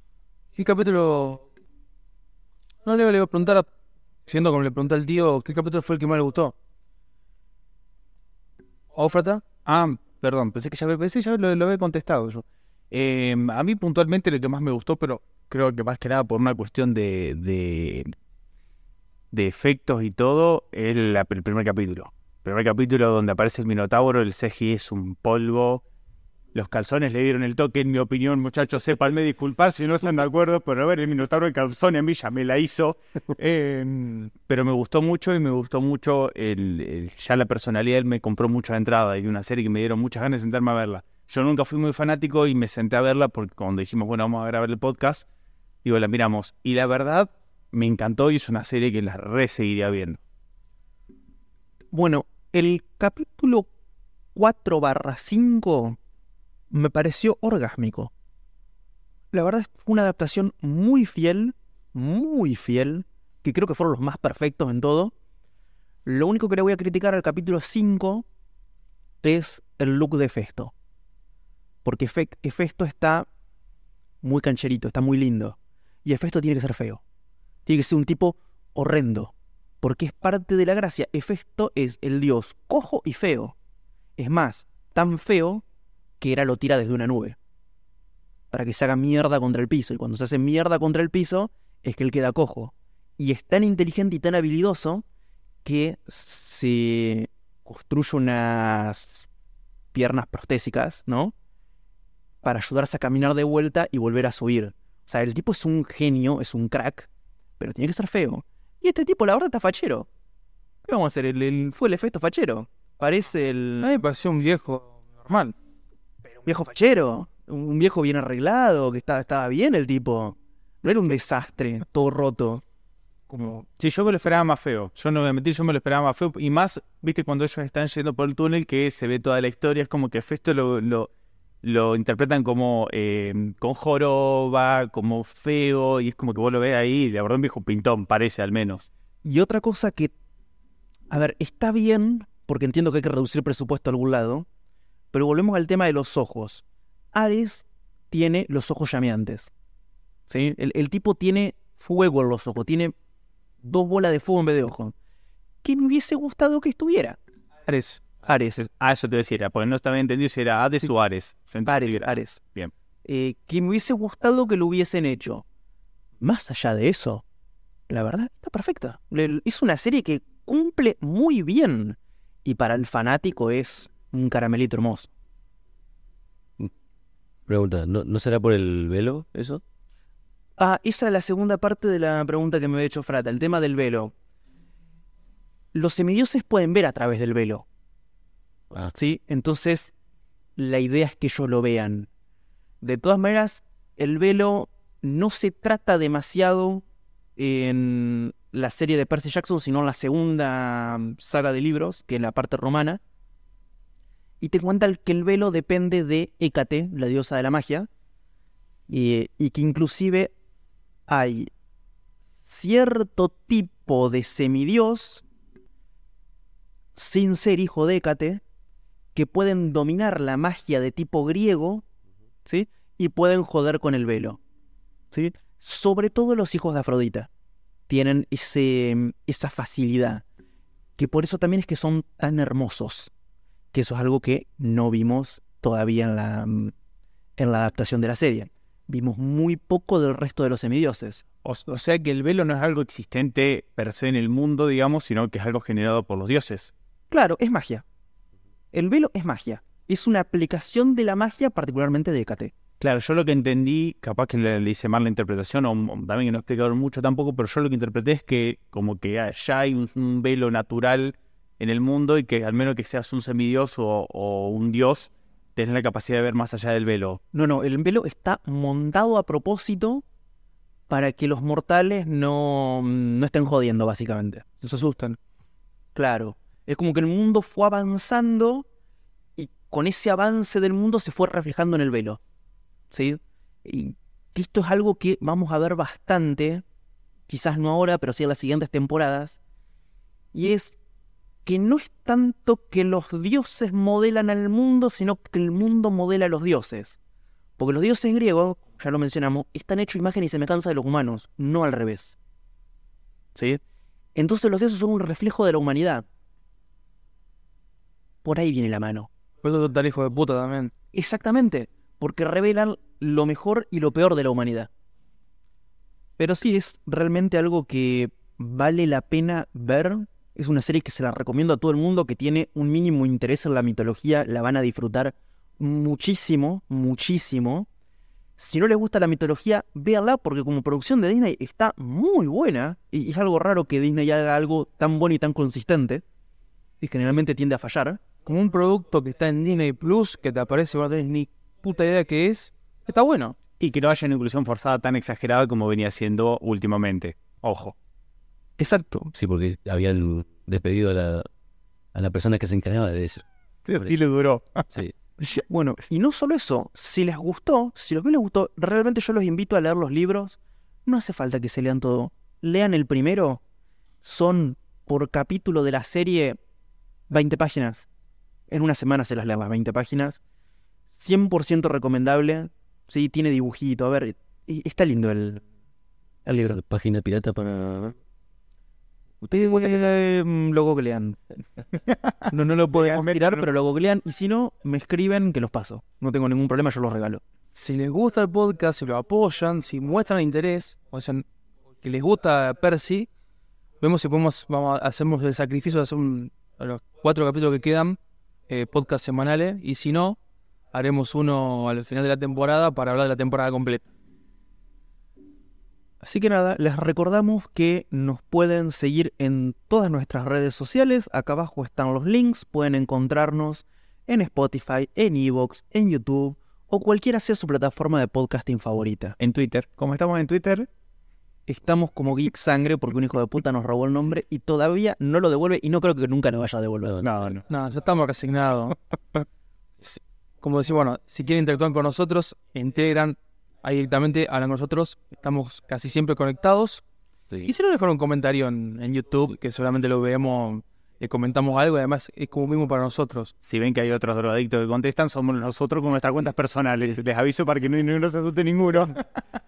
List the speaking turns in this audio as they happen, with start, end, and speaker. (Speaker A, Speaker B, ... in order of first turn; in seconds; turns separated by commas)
Speaker A: 0.6-1.4, Speaker A: 2.9-3.7, Speaker A: 4.3-6.5, Speaker A: 8.9-9.4, Speaker B: 9.7-18.1, Speaker B: 19.3-25.8, Speaker B: 26.5-45.3, Speaker B: 45.8-50.2, Speaker C: 51.9-53.7, Speaker C: 54.4-56.0, Speaker C: 56.7-58.1, Speaker C: 59.3-65.1, Speaker C: 66.0-68.3, Speaker C: 69.2-70.7, Speaker C: 71.8-73.3, Speaker C: 74.2-77.0, Speaker C: 77.7-83.5, Speaker C: 84.2-85.6, Speaker C: 86.2-87.4, Speaker C: 88.5-95.0, Speaker C: 95.6-99.3, Speaker C: 99.9-101.3, Speaker C: 102.4-107.1, Speaker C: 107.6-110.1, Speaker C: 110.8-113.9, Speaker A: 113.8-115.5, Speaker C: 116.5-122.6, Speaker C: 123.3-123.6, Speaker B: 123.8-131.1, Speaker B: 131.6-138.9, Speaker C: 139.2-140.1, Speaker C: 141.1-144.5, Speaker C: 145.1-149.5, Speaker C: 150.3-152.9, Speaker C: 153.6-154.9, Speaker C: 155.6-157.2, Speaker C: 157.8-158.7, Speaker B: 158.8-162.7, Speaker C: 161.7-162.4, Speaker C: 163.1-165.4, Speaker C: 166.2-167.2, Speaker C: 167.9-175.1, Speaker D: 177.5-179.6, Speaker C: 180.6-184.1, Speaker C: 185.7-187.7, Speaker C: 188.9-189.9, Speaker C: 190.6-192.1, Speaker C: 192.8-196.8, Speaker C: 197.4-203.0, Speaker C: 204.4-207.9, Speaker C: 208.9-210.3, Speaker C: 211.1-211.5, Speaker C: 212.4-215.2, Speaker C: 216.9-218.4, Speaker C: 219.2-221.8, Speaker C: 222.4-224.4, Speaker C: 225.1-227.3, Speaker C: 227.9-230.2, Speaker C: 231.0-233.1, Speaker C: 233.7-236.7, Speaker C: 237.4-241.2, Speaker B: 241.4-246.7, Speaker C: 247.1-247.8, Speaker C: 248.7-252.6, Speaker B: 252.8-267.2, Speaker C: 267.3-270.0, Speaker C: 270.9-274.7, Speaker A: 274.6-275.1, Speaker C: 275.9-278.7, Speaker C: 279.4-282.2, Speaker C: 282.9-286.6, Speaker C: 287.3-289.4, Speaker C: 290.3-290.8, Speaker C: 291.4-297.0, Speaker C: 297.6-302.2, Speaker C: 303.4-303.6, Speaker C: 304.1-306.1, Speaker C: 308.2-309.1, Speaker A: 309.4-310.7, Speaker C: 310.9-314.7, Speaker C: 316.2-327.7, Speaker C: 328.4-336.0, Speaker C: 336.8-338.0, Speaker A: 338.2-343.4, Speaker B: 343.6-347.8, Speaker C: 348.6-349.1, Speaker D: 349.1-351.3, Speaker D: 351.9-353.2, Speaker B: 353.6-354.7, Speaker C: 355.2-363.4, Speaker C: 364.0-366.4, Speaker C: 367.1-367.9, Speaker C: 368.5-370.2, Speaker C: 370.9-375.4, Speaker D: 376.3-377.9, Speaker C: 379.2-381.2, Speaker C: 382.3-387.2, Speaker B: 382.8-383.4, Speaker A: 387.6-391.2, Speaker A: 391.8-393.1, Speaker A: 393.8-398.0, Speaker A: 398.5-400.2, Speaker A: 400.7-403.9, Speaker C: 406.0-419.2, Speaker B: 419.2-420.7, Speaker C: 421.5-426.9, Speaker D: 426.8-427.3, Speaker B: 427.0-427.4, Speaker A: 427.5-428.8, Speaker A: 429.9-436.8, Speaker A: 437.4-443.3, Speaker B: 443.4-449.0